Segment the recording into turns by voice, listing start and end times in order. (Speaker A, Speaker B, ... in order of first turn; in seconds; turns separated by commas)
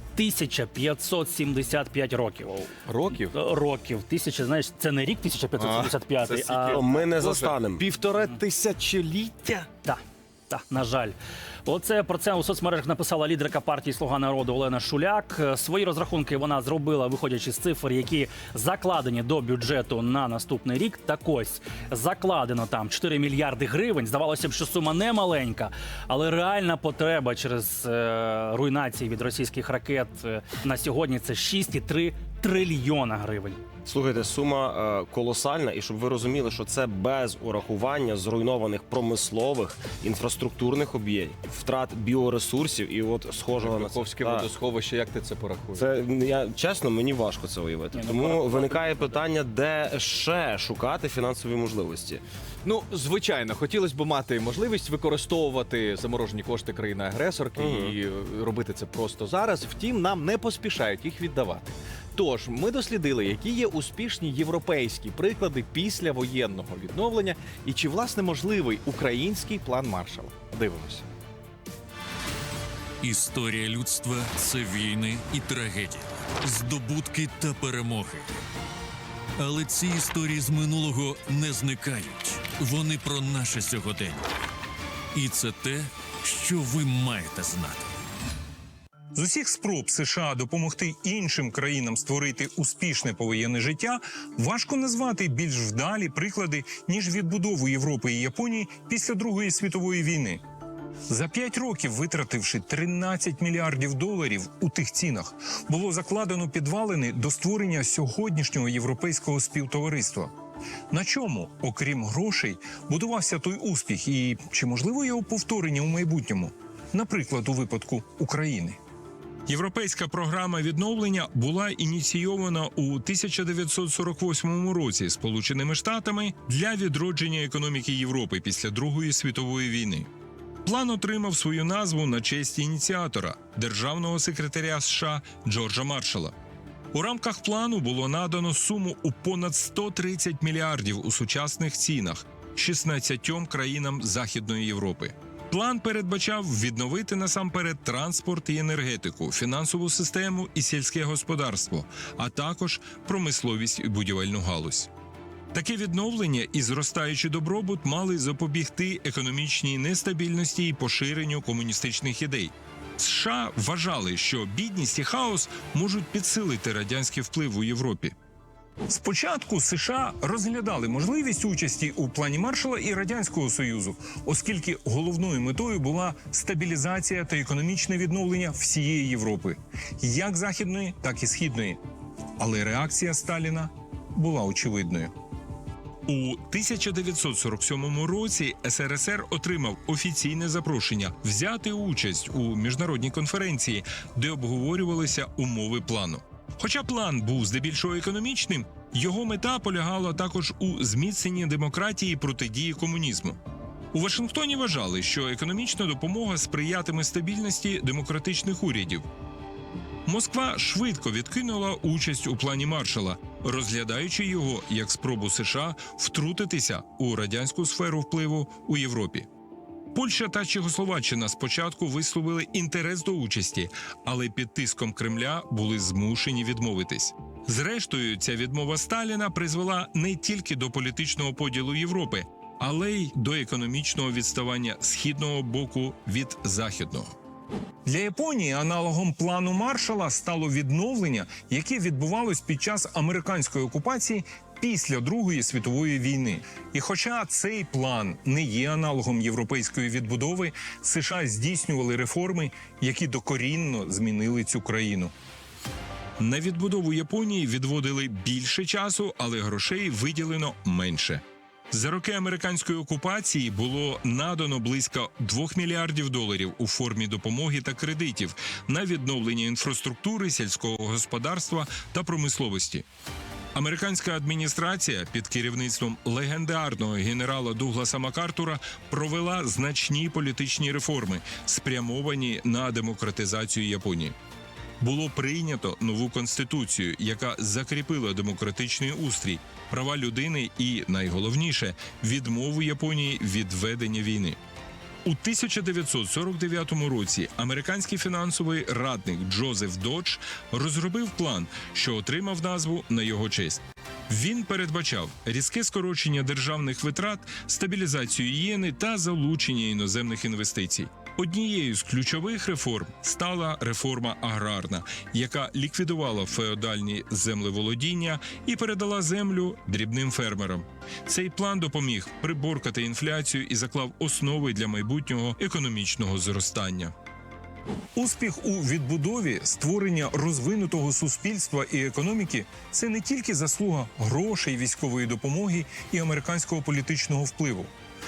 Speaker A: 0.2-2.7, Speaker B: 2.9-3.3, Speaker A: 3.2-6.8, Speaker B: 5.6-9.7, Speaker C: 6.7-7.8, Speaker A: 9.8-11.2, Speaker A: 11.7-33.6, Speaker C: 33.9-44.5, Speaker B: 43.5-45.9, Speaker C: 45.8-52.2, Speaker A: 48.0-49.1, Speaker B: 52.6-71.1, Speaker C: 57.6-57.9, Speaker D: 73.0-78.2, Speaker D: 79.4-84.3, Speaker D: 85.1-87.8, Speaker E: 89.2-100.4, Speaker E: 101.1-110.3, Speaker E: 110.9-118.8, Speaker E: 119.5-130.1, Speaker E: 130.7-136.3, Speaker E: 136.9-154.9, Speaker E: 155.5-168.1, Speaker E: 168.9-181.8, Speaker E: 182.4-185.1, Speaker E: 186.1-203.4, Speaker E: 203.9-209.1, Speaker E: 210.1-219.3, Speaker E: 219.9-237.1, Speaker E: 237.9-255.1, Speaker E: 256.2-272.9, Speaker E: 273.6-284.1, Speaker E: 284.8-294.4, Speaker E: 295.1-326.9, Speaker E: 328.0-337.7